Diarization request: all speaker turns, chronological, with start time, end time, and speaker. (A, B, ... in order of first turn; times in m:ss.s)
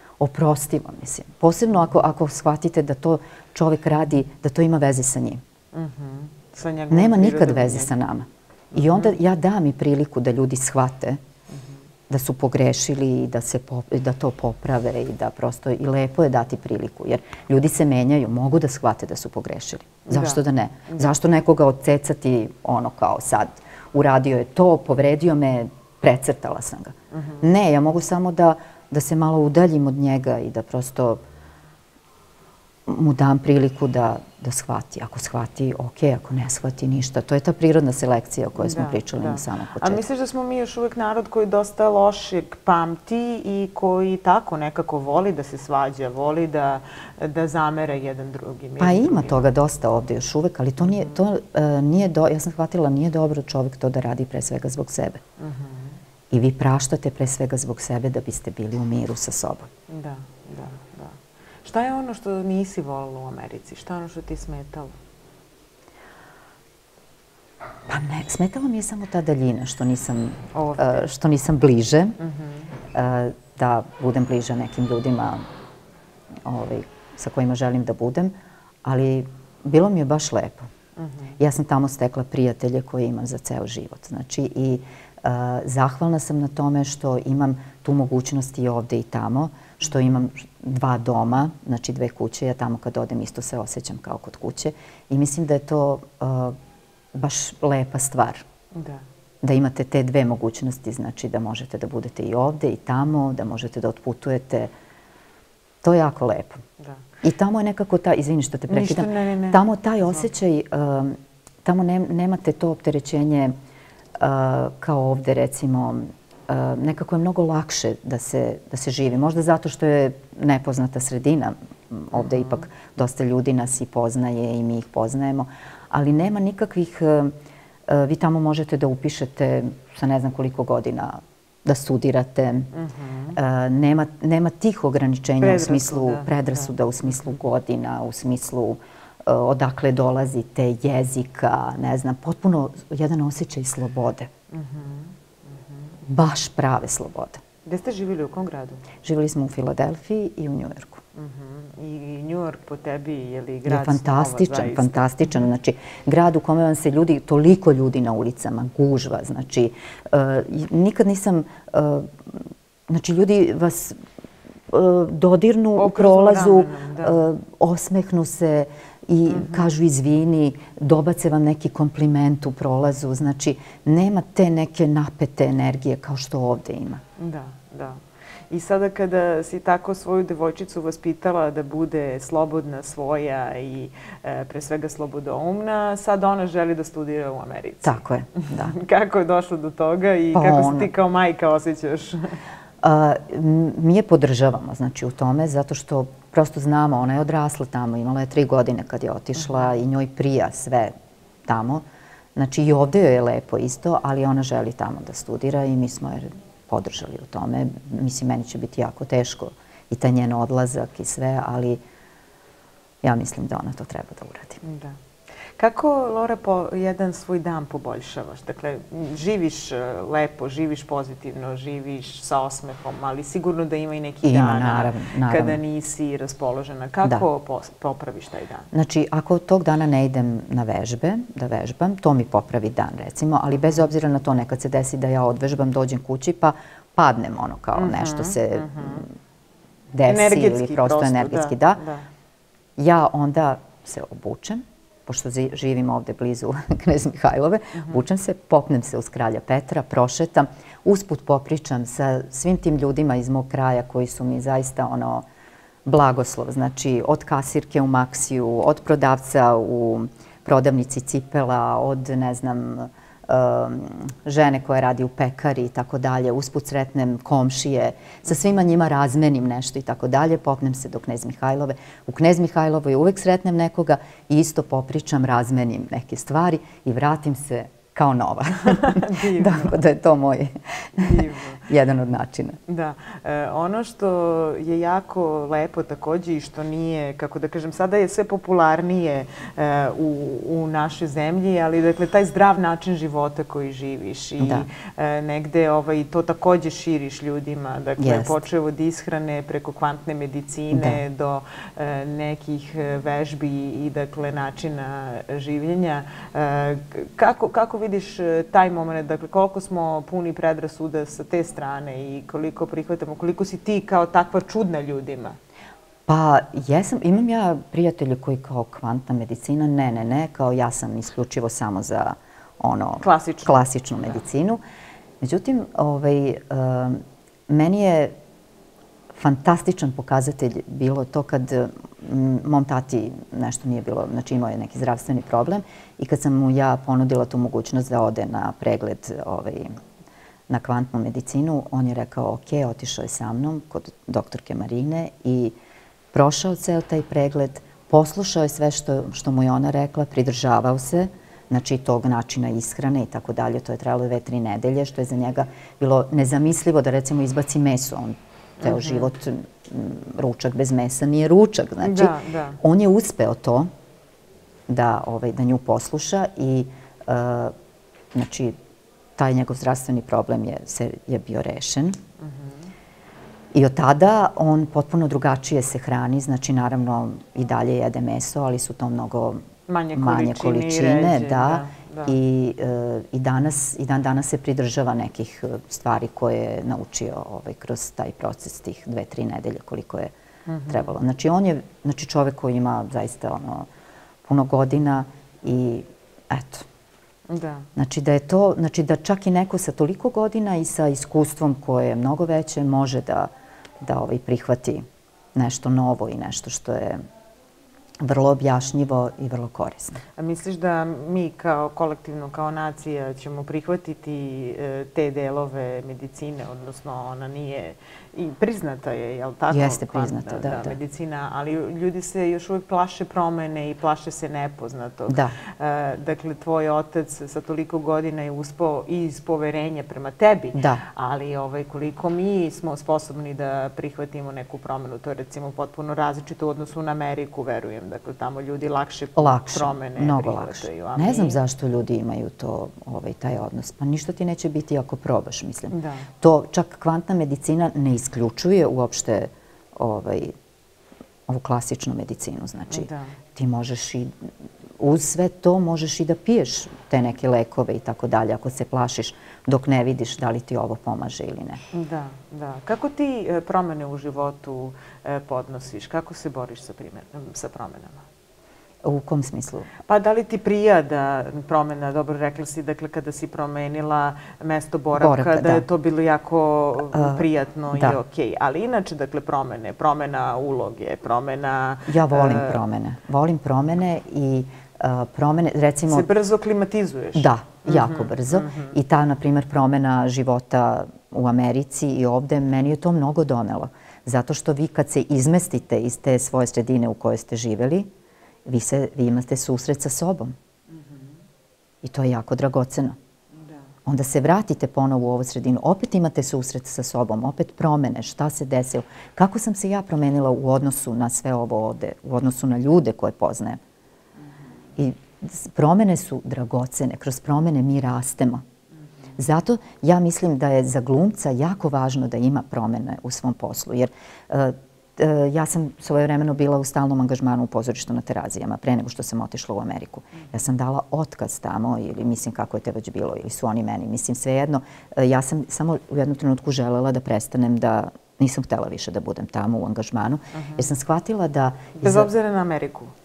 0:00.2-0:05.4 A
0:05.7-0:07.9 B
0:06.9-0:11.2 A
0:08.7-0:09.2 B
0:12.1-0:31.2 A
0:20.1-0:21.1 B
0:27.1-0:27.4 B
0:32.9-0:40.0 A
0:38.6-0:49.4 B
0:48.8-0:55.2 A
0:55.4-0:56.0 B
0:56.3-0:59.7 A
0:59.9-1:04.9 B
1:07.9-1:12.2 A
1:10.5-1:11.0 B
1:12.2-1:12.6 B
1:12.9-1:15.4 A
1:16.4-1:18.3 A
1:18.8-1:20.7 A
1:21.0-1:21.3 B
1:21.4-1:36.6 A
1:37.1-1:38.4 A
1:38.7-1:39.0 B
1:39.4-1:44.7 A
1:45.8-1:46.6 A
1:47.2-1:53.5 A
1:48.7-1:50.2 B
1:54.2-2:07.3 A
2:07.9-2:12.7 A
2:12.7-2:13.4 B
2:13.3-2:24.3 A
2:15.4-2:16.7 B
2:24.5-2:25.1 B
2:26.0-2:27.4 A
2:27.6-2:28.8 B
2:29.0-2:31.0 A
2:31.1-2:35.0 B
2:33.6-2:44.0 A
2:44.7-2:57.0 A
2:45.8-2:47.2 B
2:49.3-2:49.6 B
2:57.2-3:12.4 B
3:07.8-3:08.7 A
3:10.3-3:10.9 A
3:12.8-3:20.9 A
3:21.4-3:21.8 A
3:22.3-3:31.8 A
3:33.0-3:34.6 A
3:34.6-3:35.0 B
3:35.6-3:48.7 B
3:44.2-3:45.6 A
3:48.7-3:59.0 A
3:57.8-3:59.0 B
3:59.9-4:01.8 A
4:00.0-4:02.1 B
4:02.8-4:15.2 A
4:15.8-4:42.6 A
4:38.6-4:39.8 B
4:41.0-4:41.7 B
4:42.7-5:15.4 B
4:54.4-4:54.7 A
4:58.0-4:58.4 A
5:00.7-5:01.0 A
5:16.1-5:24.6 A
5:23.0-5:24.2 B
5:25.2-5:28.1 A
5:29.1-5:39.8 A
5:40.5-5:45.5 A
5:46.1-6:03.7 A
5:58.6-5:59.1 B
6:01.8-6:02.6 B
6:04.7-6:07.5 A
6:08.1-6:08.6 A
6:09.2-6:12.0 A
6:12.2-6:12.7 B
6:13.5-6:30.1 A
6:19.7-6:22.2 B
6:30.5-6:30.9 B
6:30.7-6:33.7 A
6:34.2-6:36.7 A
6:37.3-6:37.7 B
6:37.8-6:47.0 A
6:48.0-6:50.0 A
6:50.2-7:21.4 B
6:59.5-7:00.8 A
7:05.1-7:05.3 A
7:10.5-7:10.8 A
7:19.2-7:30.3 A
7:25.7-7:26.1 B
7:31.3-7:34.2 A
7:32.7-7:33.1 B
7:34.8-7:41.6 A
7:41.7-7:48.0 B
7:48.8-7:49.7 A
7:49.9-8:02.6 B
7:54.9-7:55.6 A
7:56.9-7:58.0 A
8:01.9-8:06.1 A
8:05.9-8:08.7 B
8:07.1-8:17.9 A
8:18.4-8:20.4 A
8:21.8-8:23.0 A
8:23.8-8:33.6 A
8:34.8-8:38.4 A
8:39.2-9:02.1 A
9:00.3-9:00.6 B
9:01.8-9:02.9 B